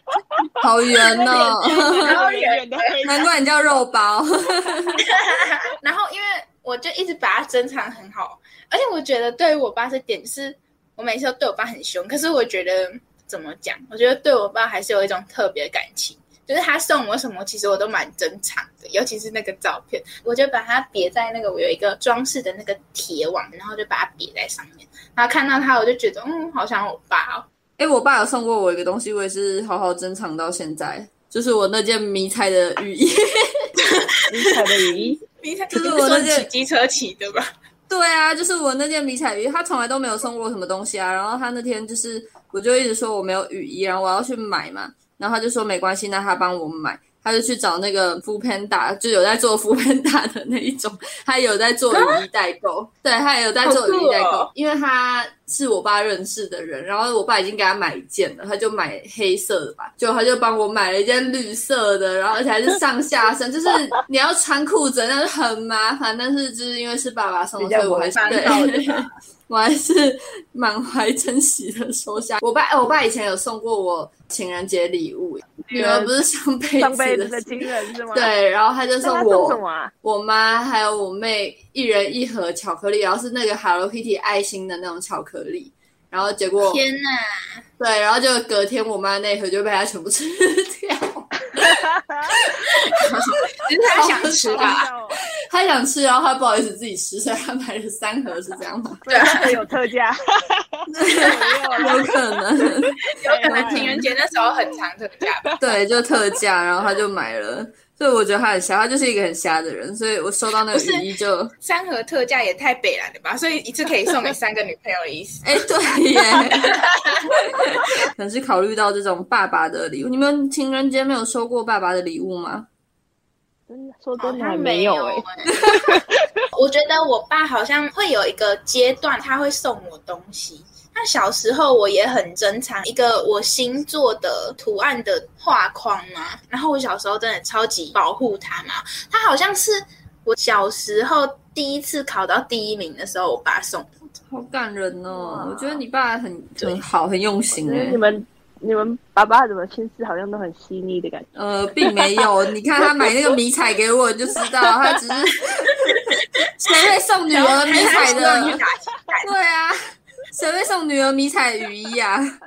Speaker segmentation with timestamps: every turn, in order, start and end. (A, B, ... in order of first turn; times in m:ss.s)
0:00.6-0:02.2 A
0:01.0-0:03.3 B
0:02.0-0:03.0 C
0:03.0-0:05.0 A
0:05.0-0:27.5 C
0:27.8-0:33.6 A
0:33.8-0:34.6 C
0:34.3-0:35.2 B
0:35.4-0:37.5 C
0:35.7-0:36.5 A
0:37.9-1:17.6 A
0:51.9-0:52.2 C
0:53.6-0:54.5 C
1:07.6-1:08.4 B
1:08.1-1:09.1 C
1:15.6-1:16.2 B
1:16.8-1:18.3 B
1:18.1-1:26.8 A
1:19.0-1:19.9 B
1:26.6-1:27.2 C
1:27.8-1:31.8 A
1:31.6-1:32.3 B
1:32.4-1:33.0 A
1:32.8-1:34.9 C
1:33.9-1:34.8 A
1:34.2-1:35.2 B
1:35.5-1:39.1 A
1:39.0-1:44.0 B
1:39.1-1:39.5 C
1:40.9-1:44.0 A
1:41.2-1:42.0 C
1:43.2-1:45.5 C
1:45.6-1:51.5 A
1:50.7-1:51.0 C
1:51.6-1:55.5 C
1:55.4-2:02.7 A
1:56.8-1:57.3 C
2:03.7-2:06.0 B
2:04.2-2:05.6 C
2:06.5-2:23.9 C
2:24.3-2:28.0 A
2:25.2-2:25.8 B
2:27.5-2:31.3 B
2:31.3-2:36.0 A
2:31.8-2:32.3 B
2:32.8-2:33.3 B
2:34.6-2:35.0 B
2:36.6-2:39.3 C
2:36.6-2:38.6 A
2:37.8-2:38.6 B
2:39.2-2:42.3 A